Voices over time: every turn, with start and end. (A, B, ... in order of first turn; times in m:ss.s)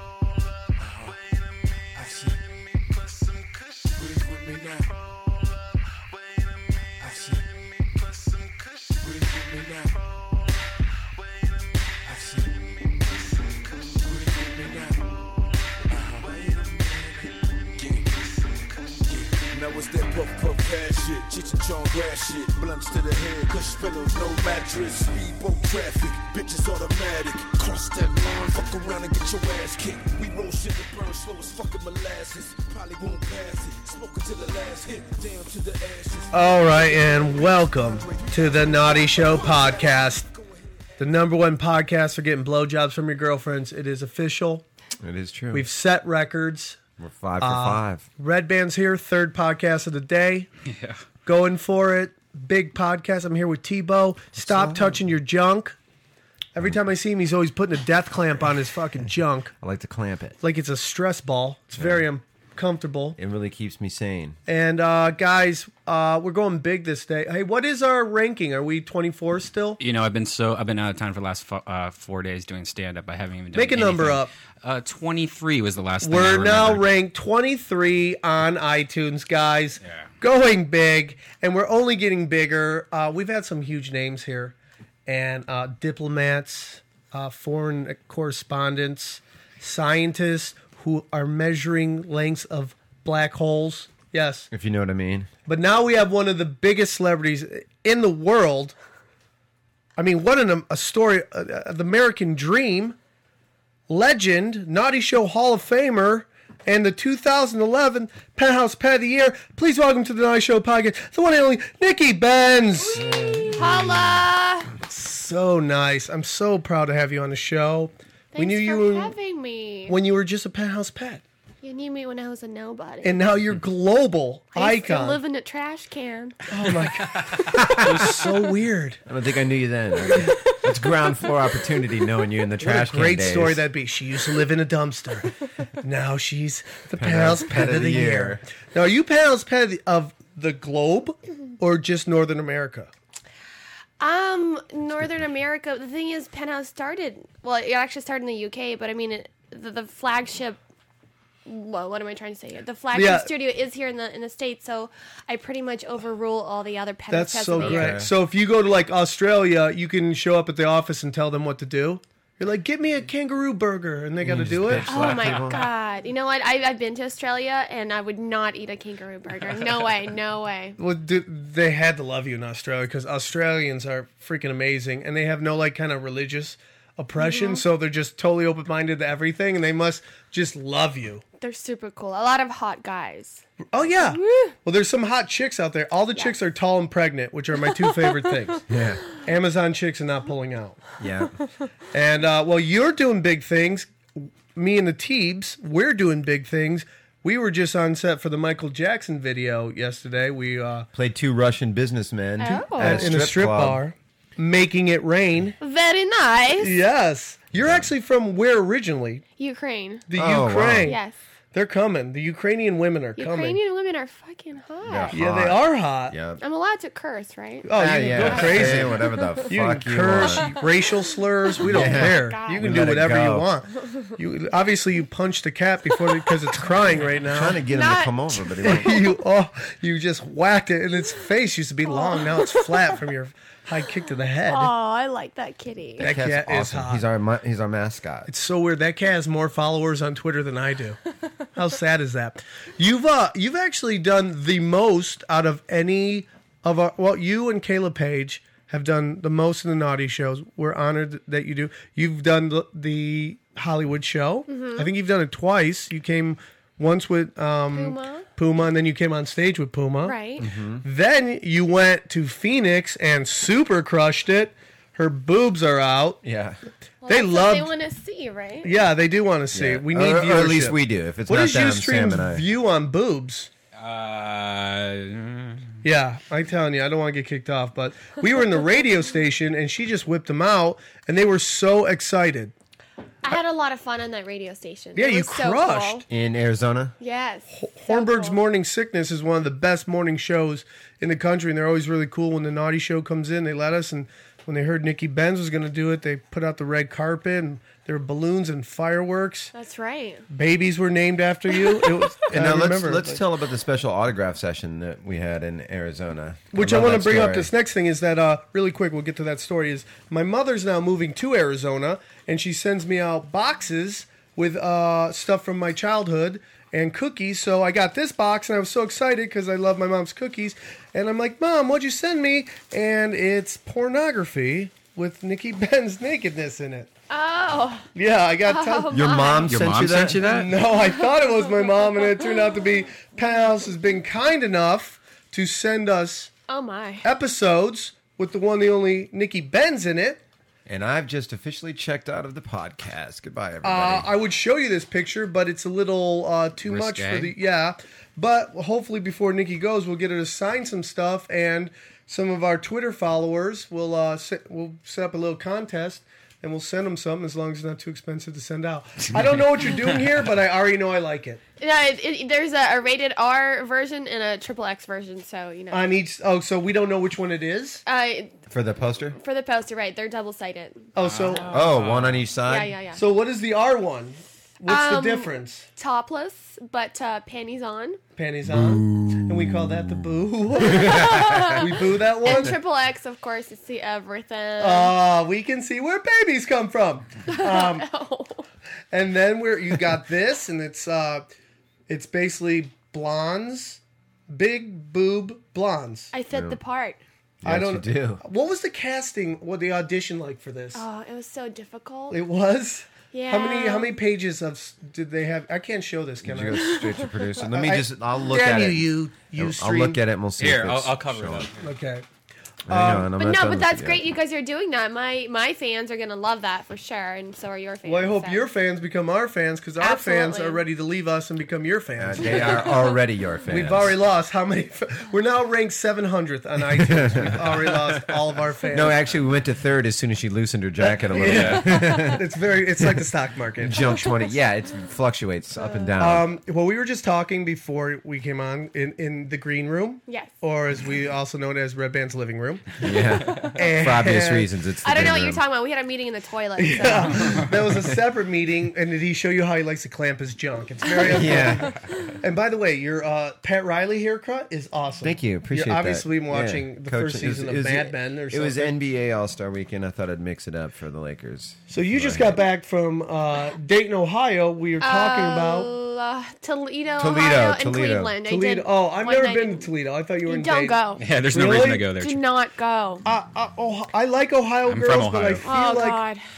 0:00.8-0:01.1 A
0:01.9-0:02.4 A
0:03.9-0:04.9 A
0:07.0-0:07.6 A
0:09.0-0:10.1 A
0:12.0-0:13.0 A
0:13.7-0:15.2 A
0:15.7-0:16.6 A
0:17.2-0:40.2 A
0:36.3-0:40.2 B
0:41.0-0:44.6 B
0:45.0-0:45.7 C
0:45.5-0:46.8 B
0:47.0-0:48.0 C
0:47.4-0:50.5 B
0:50.6-0:51.0 D
0:51.2-0:55.8 B
0:54.4-0:55.0 C
0:56.5-0:59.5 B
0:59.6-1:00.4 C
1:00.4-1:03.2 B
1:01.8-1:02.0 C
1:03.2-1:04.4 C
1:04.5-1:09.8 B
1:09.8-1:16.9 D
1:13.5-1:14.3 B
1:16.0-1:24.5 B
1:25.0-1:34.5 B
1:34.5-1:35.3 C
1:35.4-1:38.7 B
1:40.0-1:43.0 B
1:43.9-1:53.7 B
1:53.1-1:53.5 C
1:53.6-1:54.7 E
1:54.8-1:59.1 B
1:58.3-2:00.0 E
1:59.9-2:01.2 B
2:01.6-2:03.2 E
2:03.0-2:05.2 B
2:04.5-2:06.4 E
2:06.5-2:09.0 B
2:07.6-2:08.1 C
2:09.1-2:13.7 C
2:12.6-2:22.9 B
2:17.0-2:18.4 C
2:24.0-2:30.6 E
2:31.4-2:38.0 E
2:32.9-2:33.3 B
2:37.1-2:45.1 B
2:37.5-2:38.1 C
2:44.2-2:45.7 C
2:44.8-2:50.8 E
2:50.8-3:01.2 B
2:57.2-2:57.6 E
3:01.4-3:03.4 E
3:03.7-3:08.6 B
3:04.0-3:04.6 E
3:08.7-3:09.0 C
3:09.2-3:11.0 B
3:11.0-3:11.3 C
3:11.9-3:20.9 B
3:20.9-3:23.8 C
3:22.4-3:23.1 E
3:22.4-3:25.6 B
3:25.6-3:26.8 E
3:26.6-3:29.2 B
3:27.5-3:27.9 C
3:29.4-3:30.0 E
3:30.1-3:33.6 B
3:30.1-3:30.9 C
3:30.8-3:31.2 E
3:33.2-3:35.2 E
3:34.8-3:36.4 C
3:35.1-3:36.2 B
3:36.4-3:39.4 E
3:37.6-3:47.6 B
3:37.7-3:40.6 C
3:41.6-3:42.8 E
3:41.6-3:43.5 C
3:47.2-3:49.0 C
3:47.7-3:48.9 E
3:48.6-3:54.7 B
3:51.9-3:52.8 E
3:54.5-3:56.1 E
3:56.0-3:58.3 C
3:56.0-3:57.0 B
3:58.2-4:01.0 B
4:01.5-4:20.2 B
4:14.5-4:14.9 E
4:17.7-4:18.3 E
4:20.0-4:20.4 E
4:20.4-4:20.8 C
4:20.8-4:26.2 B
4:26.2-4:26.6 C
4:27.0-4:28.7 E
4:27.1-4:27.7 B
4:28.6-4:33.5 B
4:29.5-4:32.4 C
4:33.8-4:35.7 D
4:35.8-4:42.5 B
4:43.2-4:46.0 E
4:44.9-4:46.0 B
4:46.1-4:46.9 C
4:47.0-4:48.4 E
4:47.5-4:59.5 B
4:59.5-5:00.2 E
5:00.3-5:03.2 B
5:02.3-5:07.5 C
5:06.5-5:26.9 B
5:27.1-5:27.9 E
5:27.9-5:29.2 B
5:28.4-5:29.5 E
5:28.9-5:30.5 C
5:29.5-5:30.5 D
5:30.2-5:36.3 B
5:36.5-5:37.1 E
5:37.0-5:40.2 B
5:40.6-5:44.1 C
5:43.6-6:01.4 B
5:46.6-5:47.3 D
6:01.6-6:05.9 E
6:05.7-6:07.8 B
6:07.8-6:08.3 E
6:08.5-6:09.2 C
6:09.1-6:10.9 E
6:10.9-6:11.5 B
6:11.0-6:12.2 D
6:11.5-6:12.7 C
6:12.5-6:13.0 E
6:12.9-6:15.7 B
6:14.7-6:18.0 E
6:18.2-6:22.6 B
6:18.4-6:21.6 C
6:20.7-6:21.7 E
6:22.2-6:24.9 E
6:24.6-6:27.9 B
6:27.3-6:28.4 E
6:28.9-6:31.3 B
6:31.9-6:36.1 B
6:36.1-6:37.0 E
6:36.3-6:36.6 C
6:37.4-6:38.2 C
6:37.4-6:40.8 B
6:40.7-6:42.2 E
6:42.1-6:46.8 B
6:43.1-6:44.0 E
6:46.2-6:51.5 C
6:46.7-6:47.1 E
6:47.5-6:50.0 B
6:50.4-6:51.6 D
6:51.6-6:52.0 B
6:52.7-6:53.1 B
6:52.7-6:54.0 C
6:53.2-6:58.4 E
6:57.8-7:02.8 B
6:59.8-7:00.6 E
7:02.0-7:03.9 C
7:03.5-7:09.0 B
7:06.7-7:12.2 C
7:10.8-7:14.0 B
7:11.2-7:11.6 D
7:12.8-7:16.3 C
7:13.8-7:14.3 E
7:15.6-7:16.0 E
7:16.0-7:22.8 B
7:20.1-7:20.3 E
7:22.8-7:25.4 C
7:22.8-7:23.6 D
7:23.4-7:24.5 B
7:24.8-7:27.3 E
7:26.6-7:38.7 B
7:31.0-7:31.8 C
7:35.0-7:42.4 C
7:41.7-7:45.7 B
7:44.8-7:49.7 E
7:47.0-7:48.1 C
7:48.2-7:51.9 B
7:50.2-7:51.0 E
7:51.0-7:52.2 D
7:51.9-7:53.0 E
7:53.0-7:56.0 B
7:54.6-7:55.5 D
7:55.4-7:56.2 E